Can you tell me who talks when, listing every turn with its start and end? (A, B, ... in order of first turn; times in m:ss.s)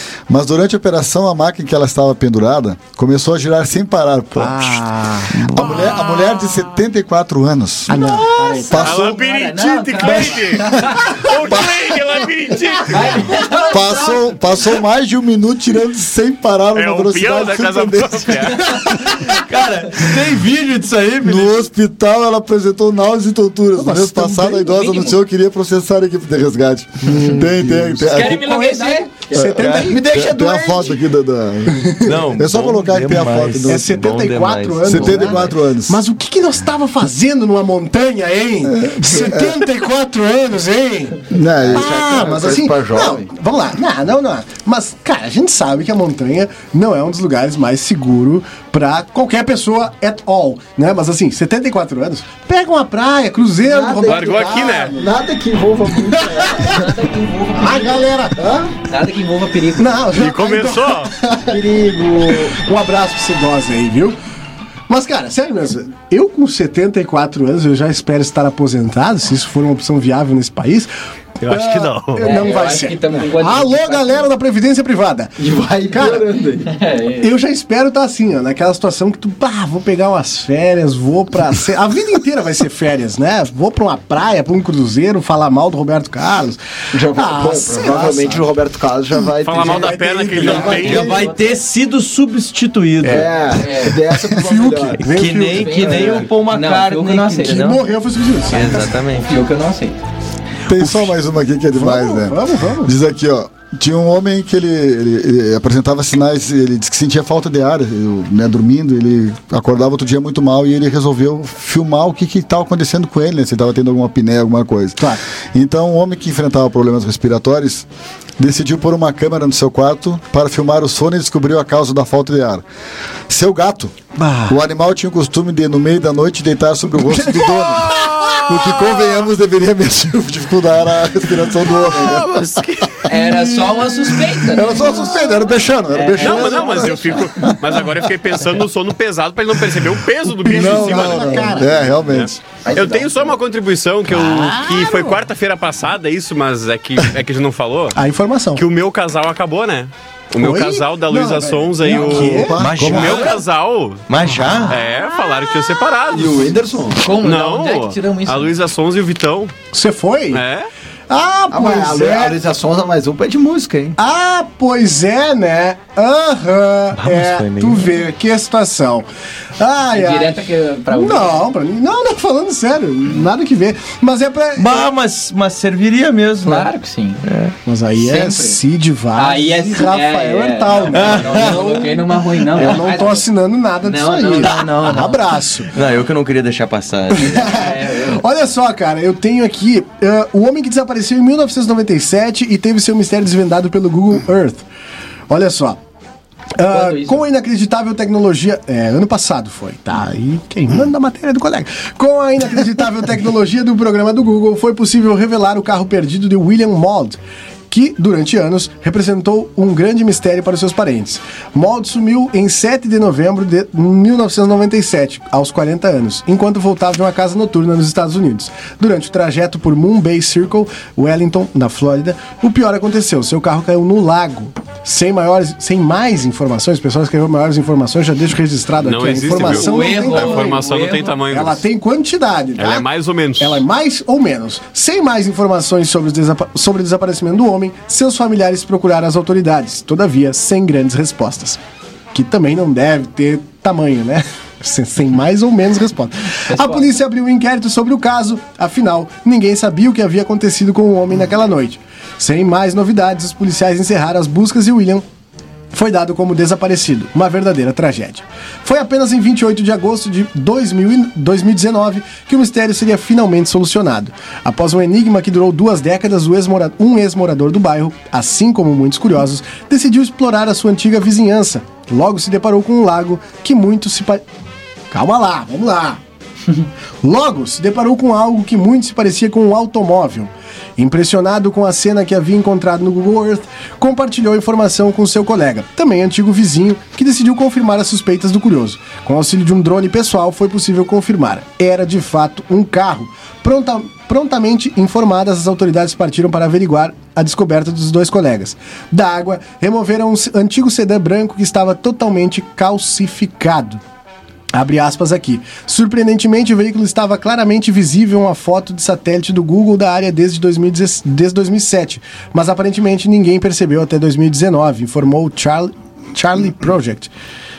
0:00.3-0:09.2 A
0:04.4-0:05.4 B
0:07.9-0:09.0 B
0:08.0-0:11.0 C
0:08.8-0:13.3 D
0:10.0-0:11.7 A
0:12.9-0:14.7 C
0:13.7-0:18.8 A
0:16.8-0:19.0 D
0:18.9-0:21.6 E
0:21.2-0:28.5 A
0:23.8-0:24.7 B
0:24.7-0:25.2 C
0:27.0-0:30.0 B
0:28.0-0:29.4 C
0:29.6-0:30.0 E
0:29.8-0:31.0 F
0:30.1-0:33.9 A
0:32.0-0:35.5 E
0:33.6-0:55.2 B
0:34.8-0:36.0 A
0:38.6-0:39.6 A
0:41.3-0:42.2 A
0:41.6-0:43.3 F
0:53.6-0:56.8 F
0:54.0-0:54.9 D
0:56.0-0:56.8 B
0:56.6-0:58.1 C
0:57.5-0:58.4 B
0:58.4-0:58.7 F
0:58.9-1:00.0 C
0:59.8-1:01.6 B
1:00.1-1:01.1 D
1:01.3-1:02.6 F
1:02.2-1:04.2 B
1:04.9-1:10.9 B
1:11.4-1:12.4 D
1:11.4-1:16.4 B
1:12.2-1:14.3 C
1:15.4-1:16.7 F
1:16.6-1:17.3 C
1:17.2-1:28.5 B
1:26.9-1:31.2 F
1:29.4-1:31.1 D
1:29.5-1:31.1 B
1:30.4-1:31.6 C
1:30.8-1:33.5 E
1:33.0-1:35.1 F
1:33.5-1:34.0 C
1:34.3-1:36.2 B
1:35.0-1:37.8 E
1:35.5-1:37.8 C
1:37.4-1:38.9 B
1:38.5-1:39.3 E
1:39.1-1:40.0 C
1:40.7-1:57.9 A
1:40.8-1:41.1 B
1:41.7-1:42.9 B
1:58.4-2:02.6 A
2:03.3-2:17.8 A
2:04.2-2:04.6 B
2:07.2-2:08.4 B
2:11.9-2:12.9 E
2:13.0-2:15.0 C
2:15.9-2:17.0 C
2:16.2-2:28.0 D
2:20.2-2:22.0 B
2:20.4-2:22.4 A
2:22.6-2:23.3 C
2:24.1-2:25.2 B
2:28.0-2:28.6 B
2:28.5-2:34.0 D
2:30.4-2:32.6 B
2:31.8-2:33.3 A
2:32.4-2:33.4 E
2:34.1-2:34.8 E
2:34.7-2:36.5 D
2:36.1-2:37.0 F
2:37.0-2:38.5 C
2:37.1-2:39.5 D
2:39.7-2:40.4 B
2:40.3-2:40.7 D
2:41.1-2:42.4 B
2:41.5-2:44.0 F
2:44.0-2:49.0 B
2:49.6-2:54.8 B
2:49.9-2:51.5 C
2:54.6-2:56.7 E
2:56.4-2:57.2 C
2:57.2-2:57.6 E
2:57.6-3:05.7 B
2:58.0-2:58.6 C
2:59.1-3:03.2 C
3:00.9-3:01.9 E
3:03.8-3:05.2 C
3:05.7-3:07.4 E
3:07.2-3:14.6 B
3:07.2-3:08.2 C
3:15.3-3:15.8 B
3:16.6-3:27.2 B
3:16.7-3:17.2 C
3:27.7-3:52.8 B
3:48.8-3:51.6 D
3:49.4-3:51.2 C
3:52.6-3:53.6 D
3:53.4-4:01.6 B
4:02.1-4:15.0 B
4:06.4-4:06.9 C
4:15.7-4:34.2 B
4:34.9-4:36.0 B
4:37.0-5:03.8 B
5:04.5-5:17.1 B